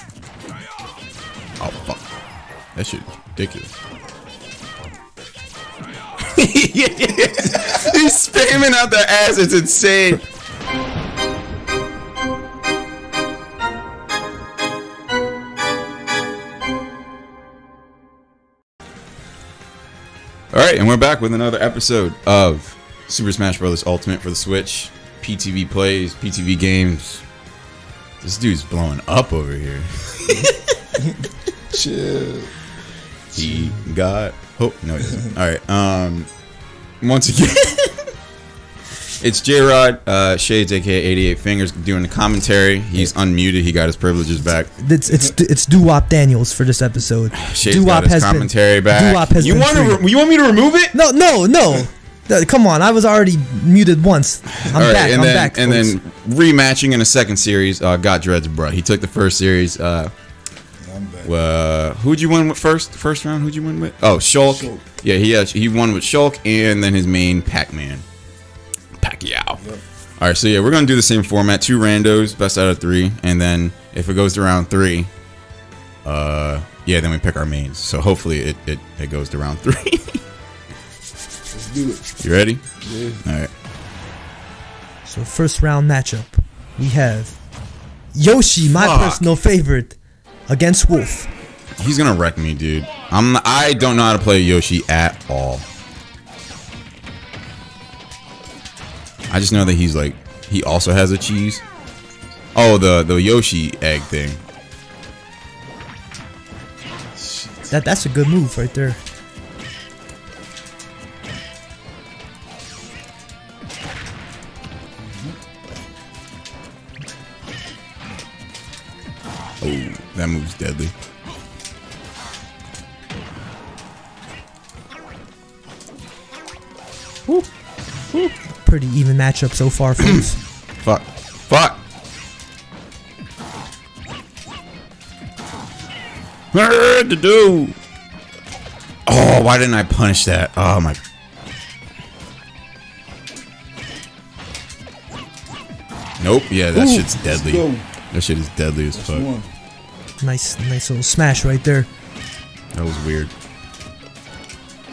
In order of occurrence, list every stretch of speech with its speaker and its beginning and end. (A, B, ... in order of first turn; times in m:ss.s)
0:01.6-0:02.0 A
0:02.8-0:03.7 A
0:06.3-0:10.2 A
0:20.5-0:27.2 A
0:28.2-0:30.8 A
0:31.0-0:32.5 B
0:33.3-0:36.3 A
0:37.0-0:38.1 A
0:39.2-0:44.7 A
0:44.8-0:50.0 C
0:47.4-0:51.0 A
0:50.9-0:56.0 C
0:54.6-1:00.1 A
1:00.8-1:01.3 B
1:01.2-1:08.0 A
1:04.5-1:04.9 B
1:09.0-1:09.6 A
1:09.6-1:09.8 B
1:10.2-1:15.1 A
1:16.0-1:20.2 A
1:21.5-1:22.1 B
1:22.2-1:22.6 A
1:22.8-1:23.2 B
1:23.2-1:23.5 A
1:25.0-1:27.4 C
1:28.1-1:30.0 C
1:28.7-1:29.3 A
1:30.5-1:31.3 C
1:31.8-1:35.6 A
1:39.3-1:41.6 A
1:42.6-1:44.4 A
1:47.1-1:47.8 B
1:47.7-1:49.0 C
1:55.0-1:55.4 B
1:59.6-2:00.9 A
2:08.6-2:10.4 C
2:10.0-2:10.3 A
2:10.8-2:11.8 A
2:16.5-2:17.8 A
2:19.1-2:21.0 A
2:26.2-2:29.3 A
2:26.7-2:27.1 C
2:27.1-2:27.8 B
2:28.9-2:29.5 B
2:30.2-2:31.9 C
2:32.7-2:33.3 A